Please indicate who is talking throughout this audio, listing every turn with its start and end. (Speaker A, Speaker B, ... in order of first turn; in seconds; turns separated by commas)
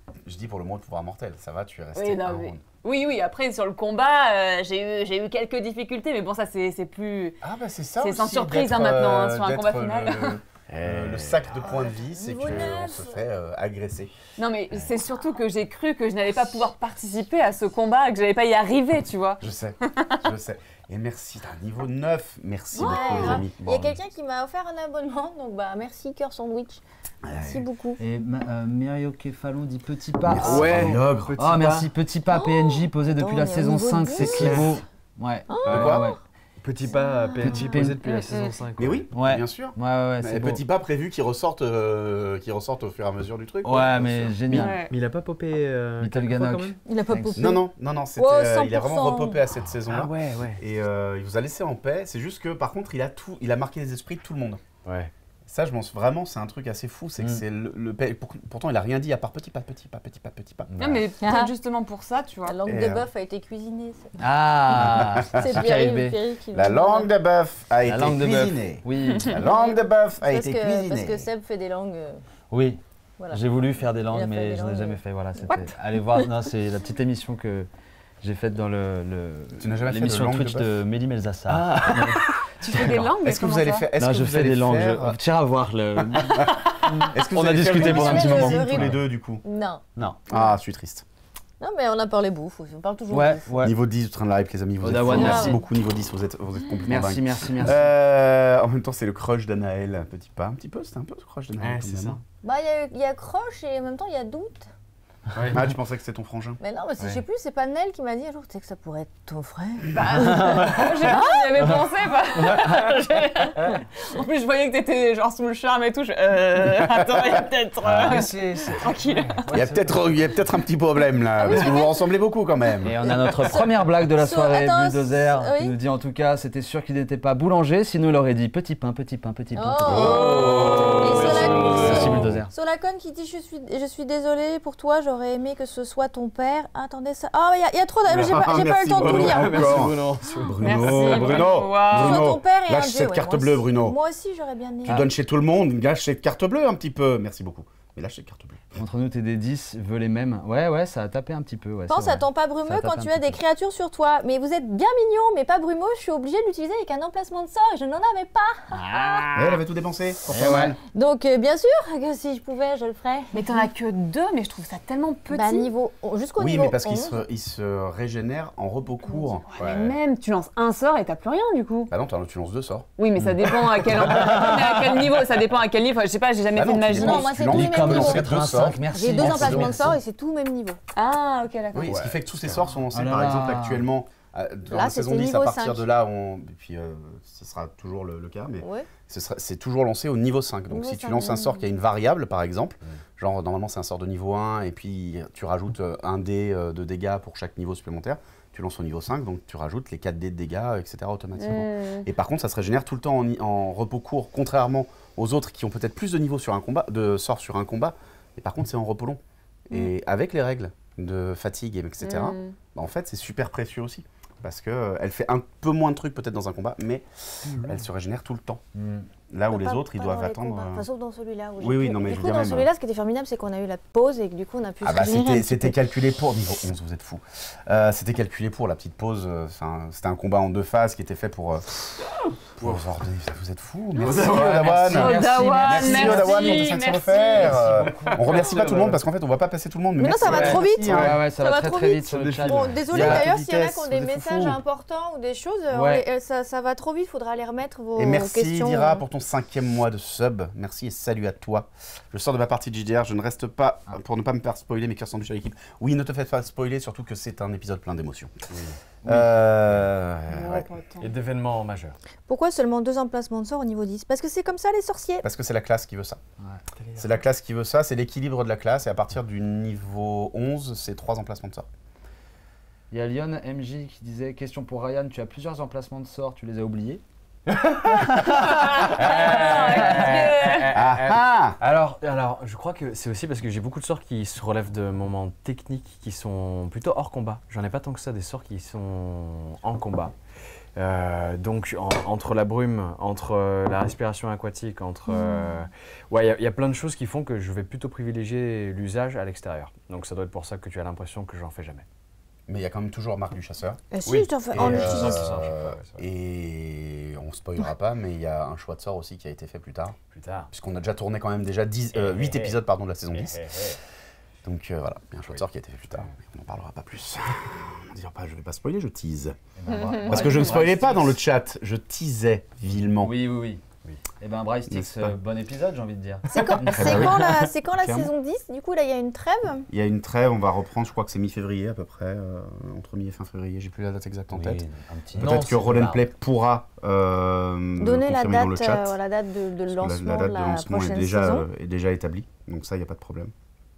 Speaker A: 0.2-2.6, Speaker B: 1.9-7.4, Speaker A: 7.4-14.1, Speaker B: 8.0-10.4, Speaker C: 10.7-11.5, Speaker D: 11.6-13.2, Speaker B: 14.4-20.1, Speaker A: 19.4-23.9, Speaker D: 22.7-26.8, Speaker C: 23.1-23.9, Speaker A: 27.2-27.6, Speaker D: 27.3-28.0, Speaker E: 28.0-36.2, Speaker A: 30.2-31.4, Speaker C: 30.4-31.9, Speaker D: 32.3-34.8, Speaker C: 34.2-34.8, Speaker D: 35.5-36.2, Speaker A: 35.6-36.1, Speaker C: 35.6-36.0, Speaker C: 36.6-39.1, Speaker D: 36.8-38.0, Speaker E: 37.5-38.0, Speaker B: 38.0-38.5, Speaker A: 38.8-44.4, Speaker E: 39.1-40.6, Speaker E: 43.6-44.8, Speaker C: 44.5-46.8, Speaker B: 44.5-44.9, Speaker E: 46.0-47.6, Speaker D: 46.8-49.4, Speaker A: 47.4-54.6, Speaker C: 49.9-50.6, Speaker C: 54.8-55.1, Speaker A: 55.5-60.7, Speaker C: 60.7-61.0, Speaker B: 60.8-62.5, Speaker D: 61.2-61.5, Speaker D: 62.5-64.2, Speaker A: 62.6-63.1, Speaker E: 64.2-66.2, Speaker A: 64.8-65.3, Speaker D: 65.3-67.1, Speaker A: 66.5-71.3, Speaker E: 67.8-69.4, Speaker D: 69.3-72.2, Speaker E: 72.5-77.7, Speaker D: 74.0-75.7, Speaker E: 78.2-82.2, Speaker A: 79.5-80.7, Speaker C: 81.5-82.3, Speaker B: 82.6-83.9, Speaker E: 82.7-83.1, Speaker A: 83.2-85.2, Speaker E: 84.0-89.0, Speaker A: 86.2-89.4, Speaker C: 87.3-88.7, Speaker D: 87.8-90.5, Speaker A: 90.3-91.0, Speaker D: 91.6-93.6, Speaker E: 93.1-93.8, Speaker A: 93.6-102.2, Speaker E: 94.8-95.6, Speaker D: 95.0-95.6, Speaker E: 96.8-97.8, Speaker C: 101.6-102.2, Speaker D: 102.4-104.7, Speaker C: 105.3-105.7, Speaker A: 105.5-106.6, Speaker D: 106.6-111.8, Speaker E: 110.0-111.8, Speaker B: 110.7-119.4, Speaker E: 112.4-113.0, Speaker E: 117.8-120.0, Speaker C: 118.8-119.7, Speaker A: 119.5-123.0, Speaker D: 121.4-122.0, Speaker E: 122.8-132.5, Speaker D: 123.0-125.7, Speaker D: 129.5-139.8, Speaker A: 129.8-132.3, Speaker C: 130.1-132.5, Speaker B: 130.3-131.3, Speaker C: 138.1-141.3, Speaker A: 138.1-143.9, Speaker B: 140.6-142.3, Speaker D: 141.0-145.1, Speaker A: 144.8-148.8, Speaker E: 148.8-153.4, Speaker D: 151.9-159.3, Speaker E: 158.7-159.6, Speaker A: 159.3-160.8, Speaker E: 160.2-160.8, Speaker D: 160.9-163.7, Speaker B: 163.3-165.7, Speaker D: 165.3-167.2, Speaker A: 166.4-169.9, Speaker B: 169.5-171.9, Speaker A: 171.9-172.9, Speaker B: 173.0-177.4, Speaker E: 173.2-175.0, Speaker A: 176.5-179.8, Speaker D: 176.9-178.3, Speaker E: 177.3-180.0, Speaker D: 178.9-180.8, Speaker B: 180.9-182.0, Speaker A: 181.7-218.6, Speaker C: 181.9-182.6, Speaker E: 182.9-183.8, Speaker D: 184.7-185.8, Speaker D: 188.6-188.9, Speaker D: 190.7-191.6, Speaker B: 201.3-202.1, Speaker B: 212.0-212.6, Speaker C: 217.5-217.8, Speaker E: 218.7-219.1, Speaker A: 219.3-220.9, Speaker D: 219.5-225.8, Speaker A: 221.6-222.7, Speaker A: 224.8-231.7, Speaker A: 232.6-241.2, Speaker E: 234.0-238.9, Speaker C: 234.0-234.6, Speaker B: 234.9-237.6, Speaker C: 237.9-239.0, Speaker D: 240.0-249.0, Speaker E: 240.2-244.6, Speaker C: 240.3-241.1, Speaker C: 242.1-243.3, Speaker A: 242.9-243.9, Speaker E: 245.7-246.1, Speaker A: 247.9-258.3, Speaker C: 258.5-258.8, Speaker E: 259.0-259.3, Speaker A: 259.0-260.7, Speaker B: 260.3-261.1, Speaker C: 261.0-262.0, Speaker D: 262.3-265.2, Speaker A: 265.2-266.2, Speaker C: 266.8-267.2, Speaker A: 266.9-271.6, Speaker E: 272.9-277.0, Speaker E: 277.8-281.0, Speaker B: 278.5-280.8, Speaker C: 279.0-290.1, Speaker A: 280.7-281.6, Speaker C: 290.7-301.8, Speaker D: 295.2-295.4, Speaker A: 302.5-303.8, Speaker D: 303.9-305.2, Speaker C: 304.0-306.0, Speaker A: 304.5-310.0, Speaker C: 310.1-310.5, Speaker A: 310.5-313.6, Speaker E: 312.1-312.3, Speaker C: 312.1-312.6, Speaker C: 313.3-313.8, Speaker A: 314.4-319.4, Speaker E: 319.6-321.2, Speaker B: 319.7-320.4, Speaker A: 320.0-323.1, Speaker C: 320.3-320.5, Speaker E: 323.0-323.6, Speaker E: 324.2-327.2, Speaker A: 324.7-325.1, Speaker D: 326.3-329.7, Speaker A: 326.4-328.1, Speaker A: 329.7-334.6, Speaker E: 334.3-335.9, Speaker C: 335.1-336.0, Speaker A: 335.1-339.0, Speaker D: 337.8-341.4, Speaker A: 339.7-343.3